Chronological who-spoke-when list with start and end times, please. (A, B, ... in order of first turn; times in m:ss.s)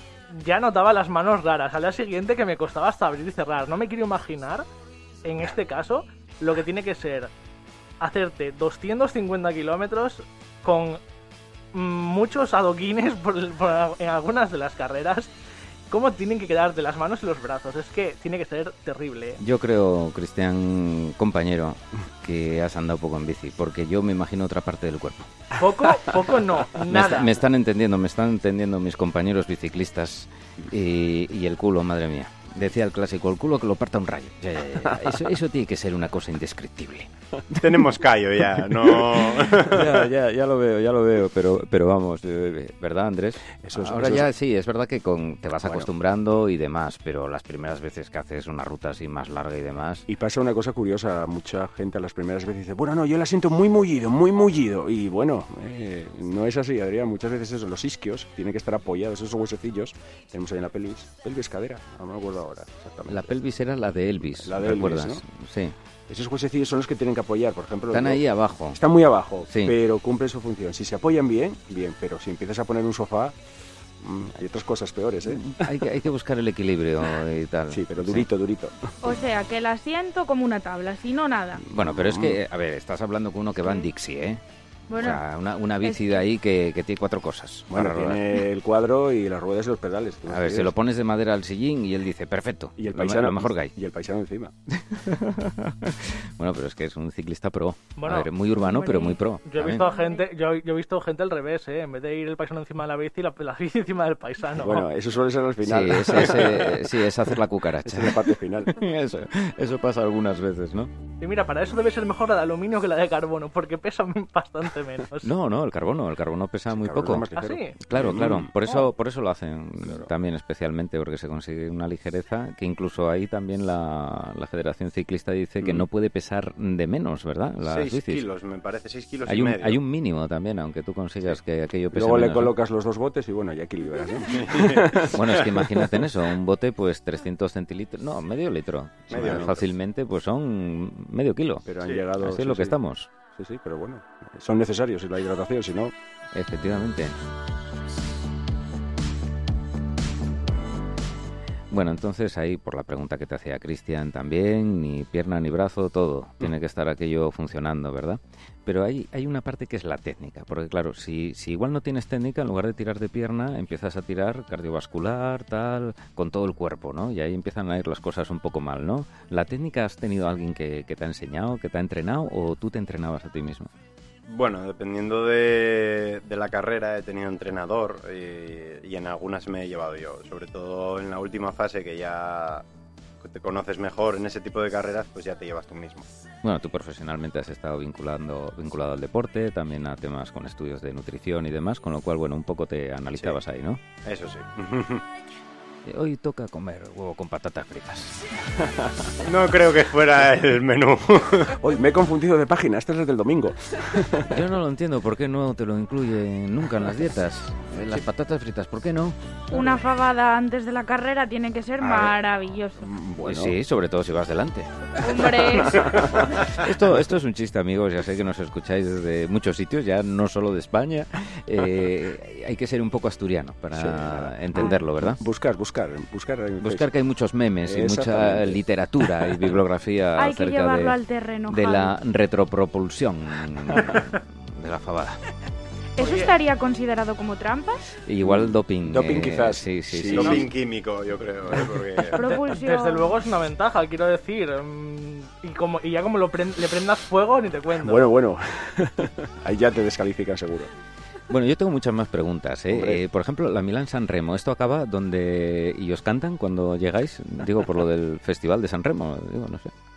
0:00.3-0:04.6 A
0:05.2-0:07.3 A
0:08.0-0:11.0 A
0:11.7-0:15.3 A
0:15.9-0:19.4 A
0:19.4-0:25.4 B
0:25.6-0:27.3 A
0:26.9-0:37.1 B
0:34.9-0:35.2 C
0:37.5-0:40.0 D
0:39.4-0:50.1 B
0:43.6-0:44.3 C
0:45.6-0:45.9 C
0:50.1-1:03.4 C
1:03.1-1:05.8 B
1:04.3-1:05.2 C
1:06.1-1:13.4 C
1:07.9-1:08.8 B
1:09.5-1:09.8 B
1:14.0-1:15.8 C
1:15.3-1:18.3 B
1:17.7-1:19.0 C
1:19.0-1:21.6 E
1:21.7-1:24.4 B
1:21.7-1:22.4 C
1:24.9-1:25.2 E
1:24.9-1:28.3 B
1:25.8-1:26.2 E
1:27.7-1:30.7 C
1:30.3-1:33.7 B
1:32.8-1:34.5 C
1:34.7-1:39.9 B
1:38.0-1:38.3 A
1:38.6-1:39.2 E
1:39.5-1:44.9 A
1:39.8-1:40.2 E
1:44.6-1:47.0 C
1:45.6-1:50.9 B
1:47.8-1:48.7 C
1:51.2-1:55.3 A
1:55.2-1:57.3 B
1:56.7-1:58.6 C
1:57.4-1:57.8 A
1:57.8-2:08.2 B
1:59.8-2:00.1 C
2:07.7-2:09.8 D
2:09.3-2:12.6 B
2:11.9-2:16.1 C
2:14.3-2:15.0 D
2:15.0-2:21.7 B
2:19.1-2:19.6 D
2:19.1-2:19.6 C
2:21.7-2:25.9 C
2:22.2-2:23.1 B
2:26.3-2:27.2 B
2:31.7-2:53.7 B
2:54.3-3:02.6 D
3:03.2-3:06.1 D
3:06.4-3:13.8 B
3:14.0-3:15.0 D
3:15.8-3:18.2 B
3:18.6-3:19.1 C
3:19.2-3:21.6 D
3:21.6-3:24.4 C
3:24.2-3:29.2 B
3:29.5-3:32.9 E
3:31.8-3:32.1 C
3:32.8-3:33.6 C
3:33.2-3:45.2 B
3:35.0-3:36.1 E
3:35.8-3:36.2 C
3:43.7-3:46.9 C
3:46.6-3:55.2 B
3:47.6-3:49.5 C
3:50.2-3:52.0 E
3:56.0-3:57.8 E
3:56.0-3:56.3 A
3:58.1-4:00.5 B
3:58.2-4:00.5 C
4:00.1-4:02.2 D
4:02.1-4:03.2 E
4:02.2-4:08.1 A
4:07.8-4:10.7 C
4:11.3-4:19.7 B
4:12.7-4:13.0 C